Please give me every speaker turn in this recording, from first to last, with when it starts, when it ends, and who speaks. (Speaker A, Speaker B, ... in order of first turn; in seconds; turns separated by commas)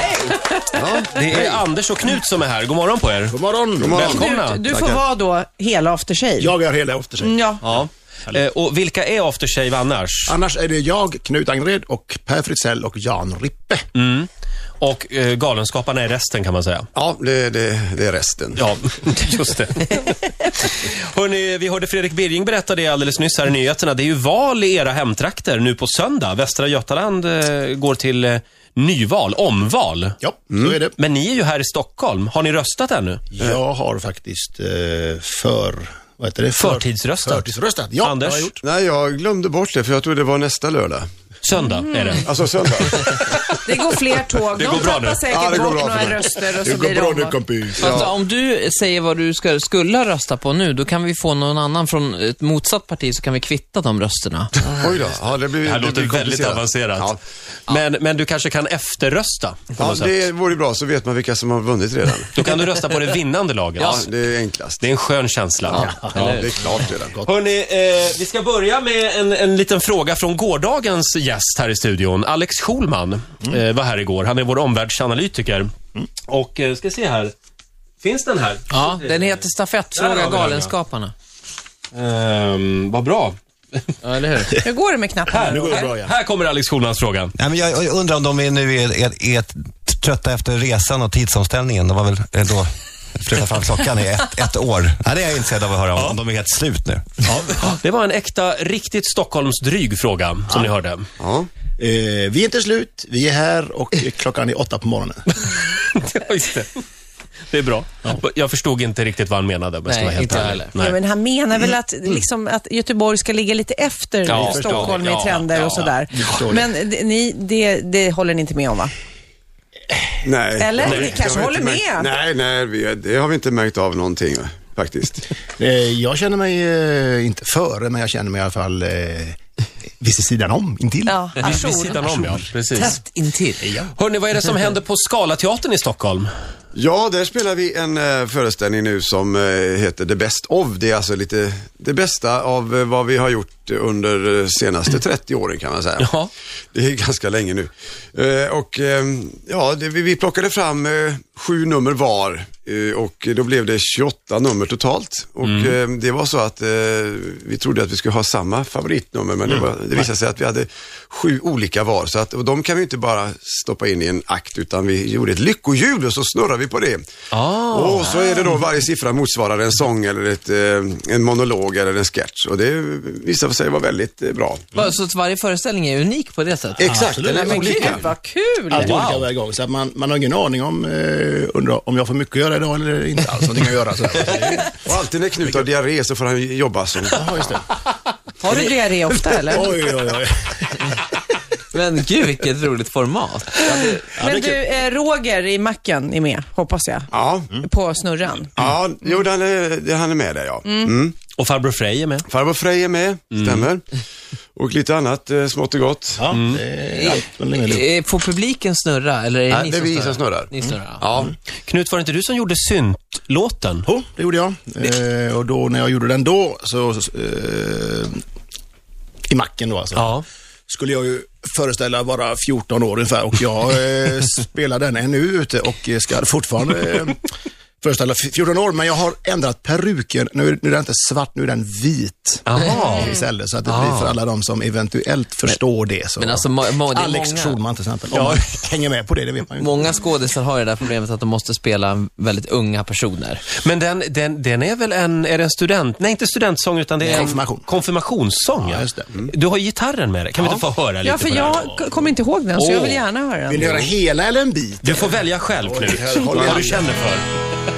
Speaker A: 0.4-0.8, Speaker B: 0.7-1.6, Speaker C: 1.1-3.4, Speaker D: 3.3-4.2, Speaker B: 3.8-5.0, Speaker C: 3.9-4.7, Speaker A: 4.0-6.5, Speaker D: 6.4-8.4, Speaker A: 7.2-7.6, Speaker C: 7.6-10.4, Speaker D: 10.3-13.8, Speaker C: 13.9-14.3, Speaker C: 14.8-16.9, Speaker B: 16.9-18.6, Speaker C: 18.6-30.2, Speaker D: 30.2-30.9, Speaker C: 31.0-33.2, Speaker D: 33.3-38.6, Speaker C: 36.6-38.5, Speaker B: 38.6-41.1, Speaker C: 41.4-45.2, Speaker A: 41.9-42.3, Speaker B: 42.2-43.0, Speaker A: 43.6-47.4, Speaker B: 45.2-46.4, Speaker D: 46.6-48.1, Speaker B: 47.8-48.1, Speaker E: 47.8-54.5, Speaker B: 54.6-57.2, Speaker C: 55.6-57.2, Speaker C: 57.7-60.2, Speaker B: 59.8-62.3, Speaker C: 62.3-64.1, Speaker B: 63.8-64.8, Speaker C: 64.8-66.5, Speaker D: 65.8-66.4, Speaker B: 65.8-67.2, Speaker D: 67.0-67.3, Speaker C: 67.2-75.7, Speaker C: 76.3-77.3, Speaker C: 78.0-79.4, Speaker E: 78.7-81.1, Speaker C: 80.0-80.7, Speaker C: 81.9-83.9, Speaker E: 84.0-84.5, Speaker A: 84.5-85.9, Speaker C: 85.3-87.3, Speaker D: 85.5-86.2, Speaker F: 87.3-97.4, Speaker C: 97.2-101.0, Speaker B: 101.2-101.5, Speaker D: 101.8-105.2, Speaker C: 105.3-106.8, Speaker C: 107.5-111.0, Speaker E: 109.9-110.7, Speaker A: 110.8-118.9, Speaker C: 114.3-115.3, Speaker E: 114.5-115.9, Speaker D: 116.1-116.7, Speaker B: 120.2-125.3, Speaker A: 120.6-122.2, Speaker C: 120.9-121.2, Speaker D: 125.6-129.4, Speaker D: 130.0-131.2, Speaker A: 131.1-132.1, Speaker C: 131.4-133.0, Speaker E: 131.5-132.0, Speaker E: 132.7-133.9, Speaker C: 133.9-136.3, Speaker B: 136.8-146.1, Speaker C: 146.0-146.3, Speaker B: 146.7-167.1, Speaker C: 155.4-155.7, Speaker C: 167.3-168.2, Speaker B: 167.7-174.7, Speaker E: 174.8-177.1, Speaker B: 176.8-178.1, Speaker D: 176.8-177.7, Speaker A: 177.2-178.9, Speaker D: 178.7-184.7, Speaker C: 178.8-179.3, Speaker B: 184.8-187.2, Speaker D: 187.1-187.7, Speaker A: 188.4-189.7, Speaker D: 189.5-191.0, Speaker E: 191.7-193.7, Speaker D: 193.8-194.6, Speaker A: 194.2-198.6, Speaker B: 197.1-197.6, Speaker B: 198.6-201.2, Speaker A: 200.7-200.9, Speaker C: 201.4-202.3, Speaker B: 202.3-203.9, Speaker C: 203.3-203.7, Speaker B: 204.6-206.3, Speaker D: 206.2-207.9, Speaker C: 206.3-206.6, Speaker E: 207.0-211.1, Speaker B: 209.5-211.3, Speaker C: 211.6-213.9, Speaker D: 213.9-218.2, Speaker D: 219.3-227.3, Speaker C: 220.0-220.2, Speaker D: 227.8-239.9, Speaker C: 232.5-234.2, Speaker E: 236.2-237.6, Speaker C: 238.1-238.4, Speaker E: 239.6-243.4, Speaker C: 243.6-251.6, Speaker D: 247.0-247.7, Speaker E: 247.1-247.3, Speaker D: 248.6-249.1, Speaker A: 251.0-253.7, Speaker D: 251.5-252.0, Speaker C: 252.6-253.0, Speaker D: 253.5-256.9, Speaker C: 254.8-257.2, Speaker A: 255.9-256.5, Speaker B: 256.2-256.7